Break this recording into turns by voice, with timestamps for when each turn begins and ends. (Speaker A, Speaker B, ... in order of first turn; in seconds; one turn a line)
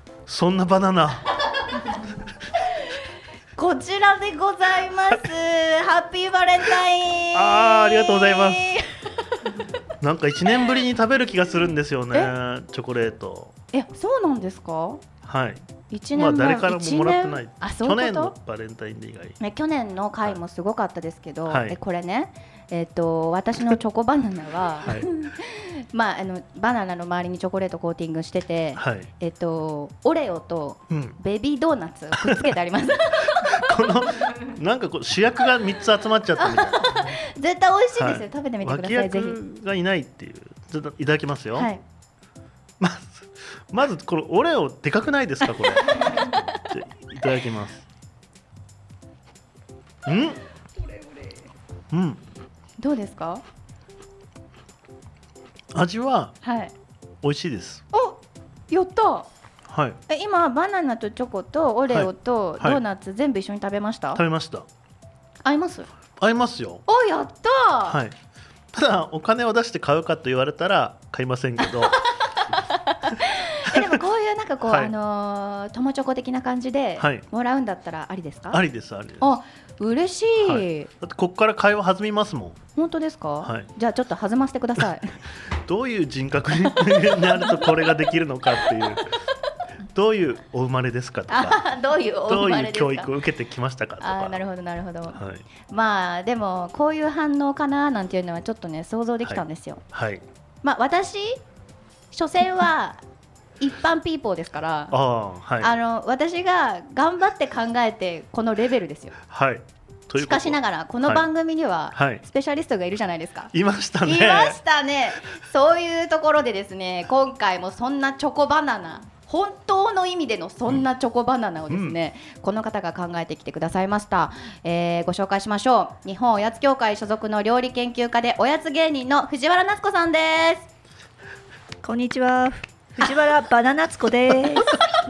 Speaker A: 0.3-2.0
Speaker B: 3.5-8.9
Speaker A: 7.3-8.8
Speaker A: 10.0-13.5
Speaker B: 13.7-15.0
Speaker A: 15.2-19.4
Speaker B: 15.9-18.3
Speaker B: 19.4-33.7
Speaker A: 21.4-21.8
Speaker A: 24.8-25.1
Speaker A: 28.8-29.1
Speaker A: 30.9-31.2
Speaker A: 32.1-32.5
Speaker A: 33.2-37.2
Speaker B: 36.4-39.4
Speaker A: 38.0-41.7
Speaker B: 41.5-41.8
Speaker A: 42.8-47.9
Speaker B: 45.9-46.3
Speaker A: 50.0-50.4
Speaker A: 51.9-52.2
Speaker B: 52.8-53.4
Speaker A: 55.7-56.4
Speaker B: 56.4-56.7
Speaker A: 57.2-57.8
Speaker B: 57.9-58.2
Speaker B: 58.7-59.3
Speaker A: 59.7-60.0
Speaker B: 60.1-64.2
Speaker A: 61.9-62.8
Speaker A: 64.1-64.7
Speaker B: 65.4-65.9
Speaker A: 66.2-66.8
Speaker B: 66.9-68.0
Speaker A: 67.8-68.2
Speaker A: 68.7-72.0
Speaker B: 72.7-78.6
Speaker A: 73.7-73.9
Speaker A: 74.7-74.9
Speaker A: 77.0-77.2
Speaker A: 78.5-79.3
Speaker B: 79.2-80.9
Speaker A: 80.4-82.6
Speaker B: 82.8-85.2
Speaker A: 83.4-83.7
Speaker A: 85.5-89.1
Speaker A: 89.9-91.6
Speaker B: 91.3-93.1
Speaker A: 92.3-94.4
Speaker B: 94.0-99.8
Speaker A: 95.1-95.4
Speaker A: 99.2-100.2
Speaker B: 100.6-101.4
Speaker B: 102.1-103.0
Speaker B: 103.6-105.0
Speaker A: 104.9-105.7
Speaker B: 105.6-109.2
Speaker A: 109.3-111.3
Speaker B: 110.2-130.7
Speaker A: 111.9-112.2
Speaker A: 113.5-114.6
Speaker A: 121.7-122.0
Speaker C: 131.8-134.8